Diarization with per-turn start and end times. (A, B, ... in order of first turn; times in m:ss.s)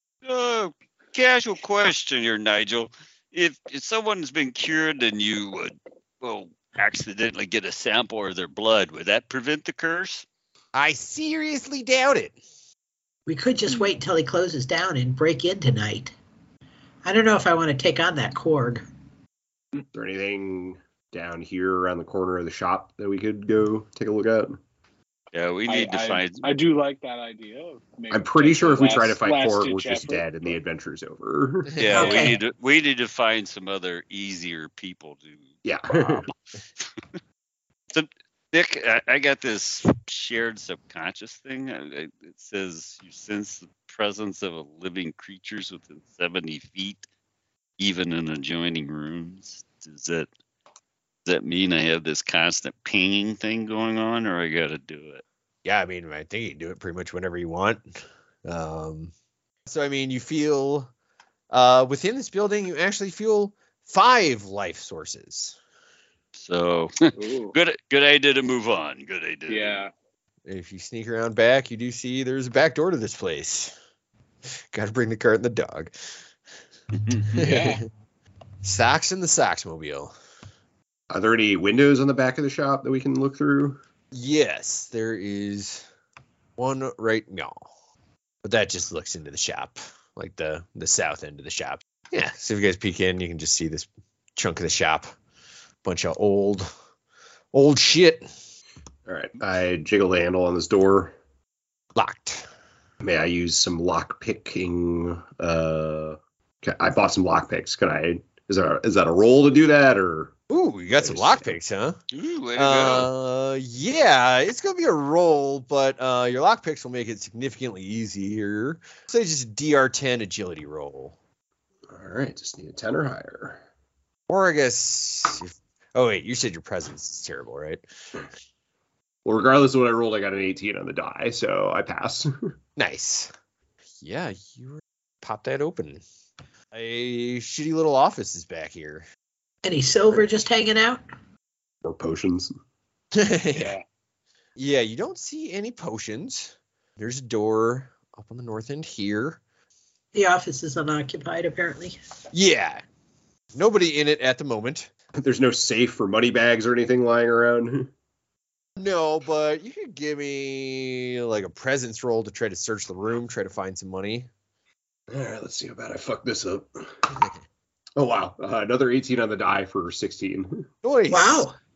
0:00.2-0:10.3 A
0:10.8-0:12.4 B
0:13.3-0:16.2 C
0:17.0-0:18.8 C
0:19.9-0:24.6 D
0:25.3-0:26.4 A
0:25.7-0:30.5 E
0:28.1-0:32.2 D
0:31.8-0:36.3 A
0:31.8-0:32.2 B
0:31.9-0:32.4 C
0:35.6-0:36.3 D
0:37.9-0:47.0 A
0:47.8-0:50.3 A
0:51.3-0:55.2 A
0:55.6-0:57.9 B
0:58.5-0:59.1 B
0:59.7-1:00.9 B
1:01.5-1:05.6 B
1:06.4-1:09.8 A
1:07.2-1:07.6 E
1:09.5-1:09.9 E
1:10.5-1:13.8 B
1:14.7-1:15.9 B
1:17.1-1:17.4 A
1:17.3-1:17.8 B
1:17.4-1:17.8 E
1:18.6-1:20.1 B
1:21.1-1:23.8 D
1:24.1-1:25.9 B
1:26.6-1:27.7 B
1:28.4-1:35.1 B
1:35.8-1:36.7 B
1:37.5-1:38.3 B
1:39.1-1:41.2 D
1:42.0-1:42.4 B
1:43.0-1:50.4 D
1:50.5-1:52.0 B
1:51.0-1:51.5 D
1:52.1-1:53.1 A
1:52.6-2:01.2 B
2:01.9-2:03.6 D
2:04.3-2:07.8 B
2:09.2-2:12.5 D
2:12.8-2:13.3 B
2:14.0-2:16.0 B
2:16.7-2:19.1 B
2:19.6-2:21.0 C
2:21.8-2:22.5 D
2:23.2-2:23.8 B
2:23.5-2:23.8 E
2:24.6-2:29.4 B
2:30.1-2:32.0 C
2:32.3-2:32.8 B
2:33.6-2:34.9 B
2:35.2-2:37.9 D
2:38.8-2:44.3 B
2:45.1-2:46.8 D
2:48.0-2:50.7 D
2:50.8-2:51.4 B
2:51.1-2:51.6 C